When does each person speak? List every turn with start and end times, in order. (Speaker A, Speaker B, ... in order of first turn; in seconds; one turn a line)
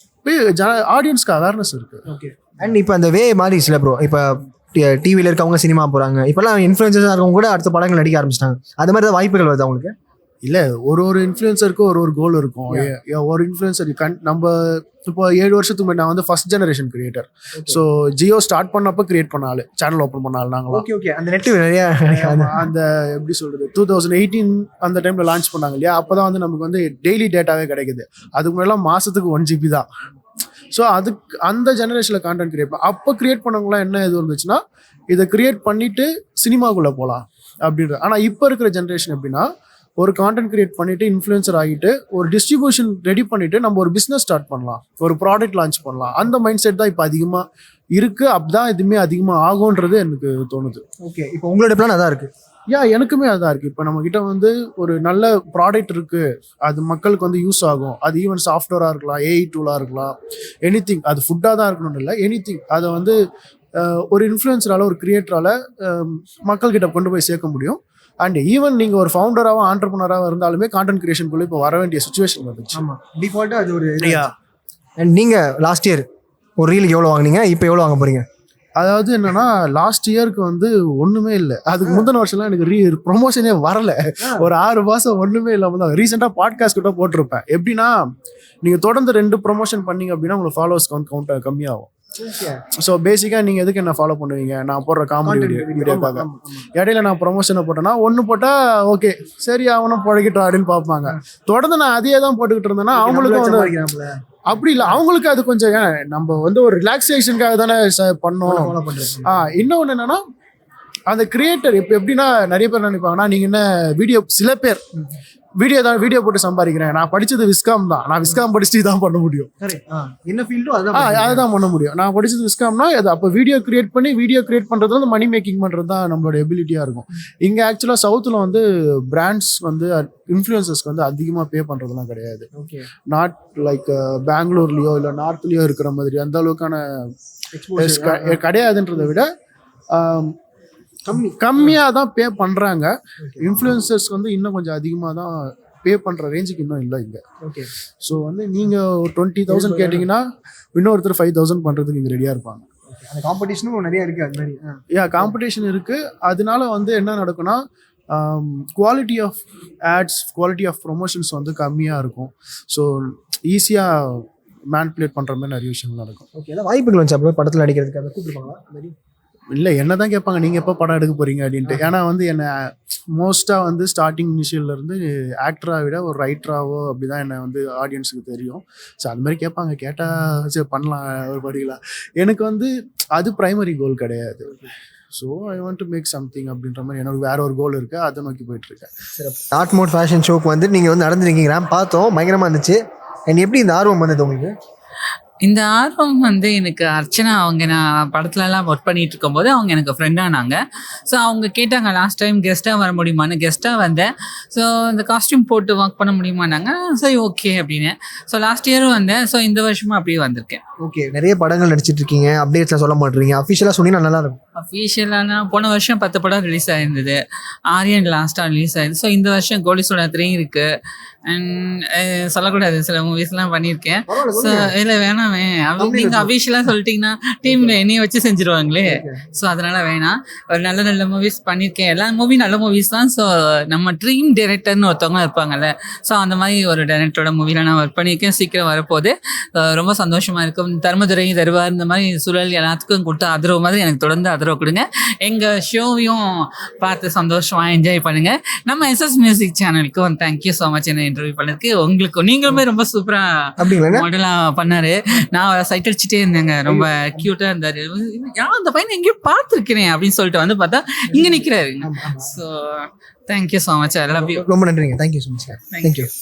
Speaker A: 0.2-2.0
Speaker B: 2.1-9.9
Speaker A: 10.4-20.9
Speaker B: 17.6-17.8
Speaker B: 20.7-22.6
Speaker A: 22.1-29.9
Speaker A: 30.7-39.5
Speaker A: 40.0-50.8
Speaker B: 51.0-52.3
Speaker A: 52.7-63.2
Speaker A: 63.8-72.8
Speaker B: 72.7-74.2
Speaker A: 74.0-74.3
Speaker B: 75.0-76.1
Speaker B: 76.6-78.3
Speaker A: 78.8-88.0
Speaker A: 88.6-91.9
Speaker B: 92.2-92.6
Speaker A: 92.8-103.7
Speaker B: 95.2-96.7
Speaker B: 102.9-104.2
Speaker A: 104.5-110.2
Speaker B: 108.5-109.5
Speaker A: 111.1-114.8
Speaker A: 115.6-119.5
Speaker B: 119.6-121.5
Speaker A: 120.9-132.5
Speaker B: 132.6-132.9
Speaker A: 133.1-136.8
Speaker B: 137.5-138.4
Speaker A: 137.8-139.3
Speaker A: 139.9-140.3
Speaker B: 141.1-141.8
Speaker A: 141.3-147.2
Speaker B: 143.2-143.4
Speaker B: 147.4-147.7
Speaker A: 148.0-150.2
Speaker B: 149.5-150.1
Speaker A: 150.8-152.7
Speaker B: 152.9-155.3
Speaker A: 154.9-157.6
Speaker A: 158.1-166.3
Speaker B: 166.3-168.9
Speaker A: 169.5-184.5
Speaker A: 185.1-188.9
Speaker B: 189.2-194.5
Speaker C: 195.4-210.6
Speaker B: 210.8-214.4
Speaker C: 214.6-220.7
Speaker C: 221.3-264.5
Speaker B: 224.1-224.7
Speaker B: 225.8-226.3
Speaker B: 227.4-227.7
Speaker B: 228.9-229.2
Speaker B: 253.6-254.1
Speaker B: 256.7-257.3
Speaker B: 261.1-262.3
Speaker B: 264.2-266.1
Speaker C: 265.7-266.1